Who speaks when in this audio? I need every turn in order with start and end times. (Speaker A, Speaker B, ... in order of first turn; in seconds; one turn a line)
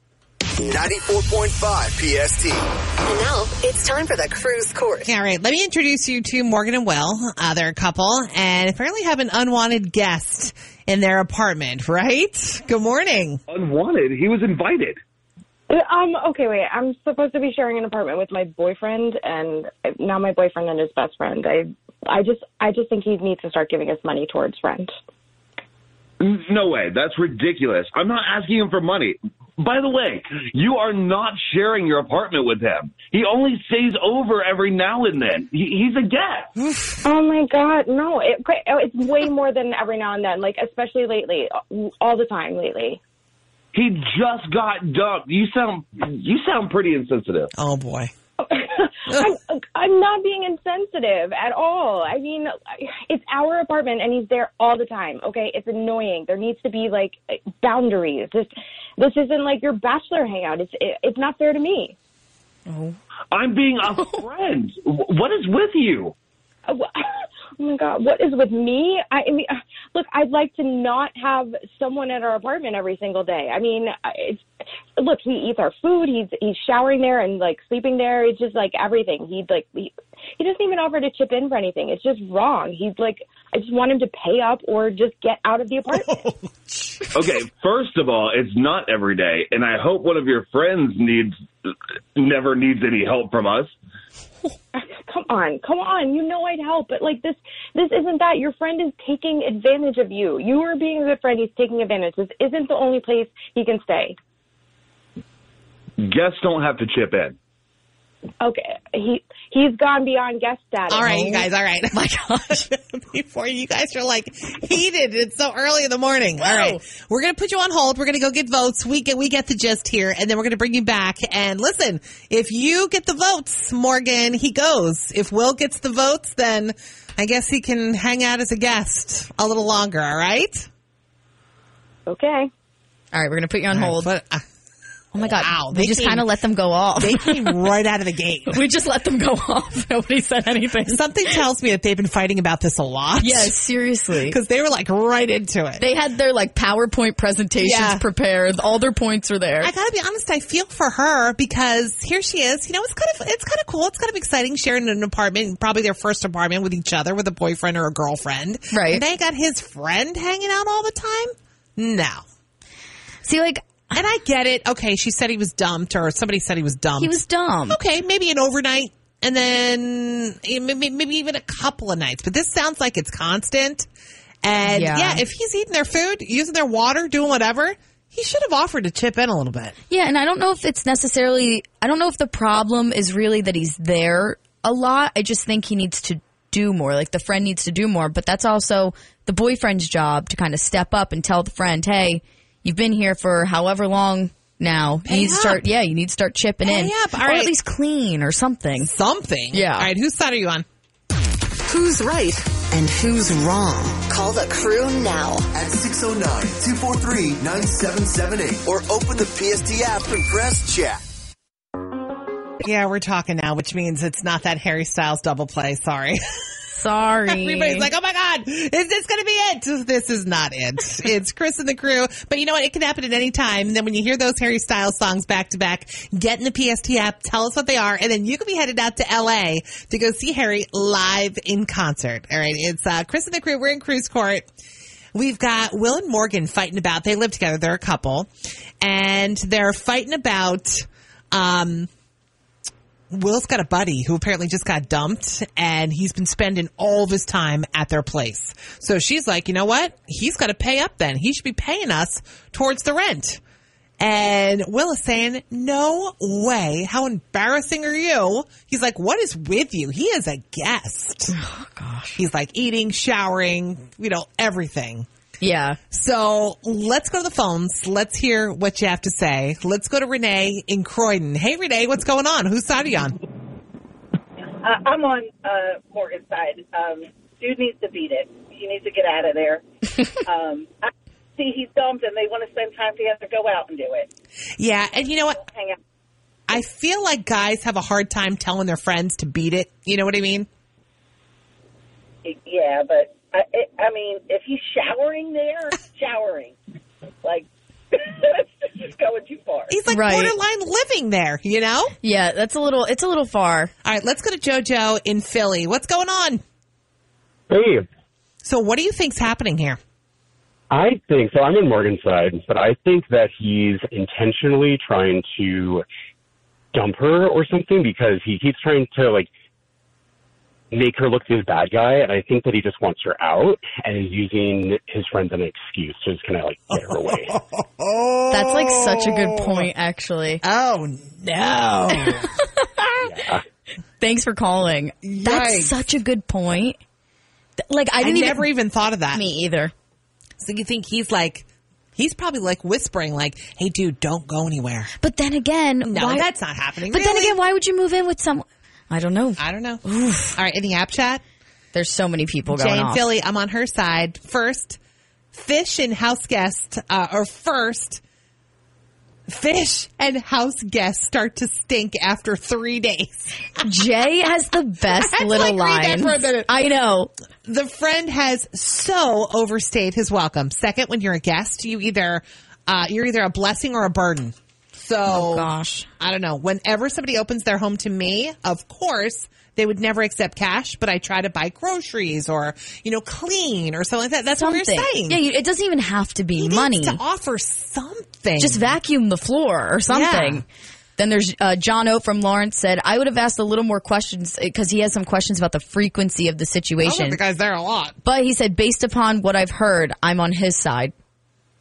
Speaker A: 0.6-2.6
Speaker B: 3.0-5.1
Speaker C: 5.0-13.4
Speaker D: 13.5-15.0
Speaker E: 15.7-24.9
Speaker D: 26.2-36.5
Speaker C: 36.6-36.9
Speaker E: 37.0-43.0
Speaker D: 43.7-47.5
Speaker C: 47.5-48.1
Speaker E: 48.4-61.9
Speaker F: 62.7-63.0
Speaker D: 63.3-66.1
Speaker E: 66.7-86.2
Speaker C: 86.0-87.0
Speaker D: 87.1-93.7
Speaker E: 94.7-104.2
Speaker D: 106.0-107.4
Speaker E: 108.4-111.4
Speaker C: 110.9-130.7
Speaker F: 116.4-116.8
Speaker E: 132.1-132.5
Speaker F: 133.1-134.1
Speaker C: 133.7-134.4
Speaker F: 135.1-137.6
Speaker C: 135.2-136.3
Speaker C: 137.0-138.6
Speaker F: 138.5-141.4
Speaker C: 140.8-143.5
Speaker F: 143.2-144.4
Speaker C: 144.3-145.8
Speaker F: 145.8-149.7
Speaker C: 147.6-148.0
Speaker C: 149.6-162.2
Speaker F: 158.7-159.0
Speaker F: 163.2-163.7
Speaker C: 163.9-167.2
Speaker F: 167.0-167.8
Speaker C: 167.7-173.9
Speaker C: 174.4-179.7
Speaker F: 174.6-175.2
Speaker F: 179.9-198.9
Speaker C: 195.1-195.6
Speaker C: 196.6-197.5
Speaker C: 198.8-200.6
Speaker F: 199.5-199.9
Speaker B: 201.7-205.5
Speaker A: 205.5-211.0
Speaker C: 212.6-216.2
Speaker F: 216.7-217.9
Speaker C: 217.2-234.4
Speaker C: 235.1-238.3
Speaker C: 238.8-241.9
Speaker C: 243.1-253.4
Speaker C: 254.0-261.4
Speaker F: 261.3-262.2
Speaker C: 262.1-265.1
Speaker F: 265.4-265.8
Speaker C: 265.9-273.2
Speaker G: 274.6-279.6
Speaker G: 280.2-284.1
Speaker C: 284.6-285.4
Speaker G: 285.4-285.8
Speaker C: 286.5-290.5
Speaker G: 292.2-296.6
Speaker G: 297.2-299.8
Speaker C: 299.7-301.9
Speaker F: 299.9-300.3
Speaker F: 302.0-303.7
Speaker C: 303.8-306.4
Speaker H: 307.5-307.9
Speaker C: 308.4-309.8
Speaker H: 310.7-315.9
Speaker H: 316.7-319.3
Speaker H: 320.7-327.3
Speaker C: 326.8-329.7
Speaker F: 328.3-330.4
Speaker C: 330.4-332.3
Speaker F: 331.9-333.2
Speaker F: 334.0-336.8
Speaker C: 335.0-335.8
Speaker F: 337.7-338.5
Speaker C: 338.0-339.2
Speaker F: 339.1-339.7
Speaker C: 340.4-344.9
Speaker F: 345.0-346.3
Speaker C: 345.9-347.4
Speaker F: 346.9-350.4
Speaker C: 349.4-351.2
Speaker F: 351.7-353.0
Speaker C: 352.5-354.8
Speaker C: 355.3-358.0
Speaker C: 359.3-363.6
Speaker F: 363.6-367.1
Speaker C: 364.9-366.5
Speaker C: 367.4-375.5
Speaker F: 375.1-375.9
Speaker C: 376.0-385.2
Speaker F: 384.4-387.0
Speaker C: 386.4-388.8
Speaker F: 388.4-390.4
Speaker C: 389.9-390.4
Speaker F: 391.0-397.2
Speaker C: 396.8-397.9
Speaker F: 398.0-400.9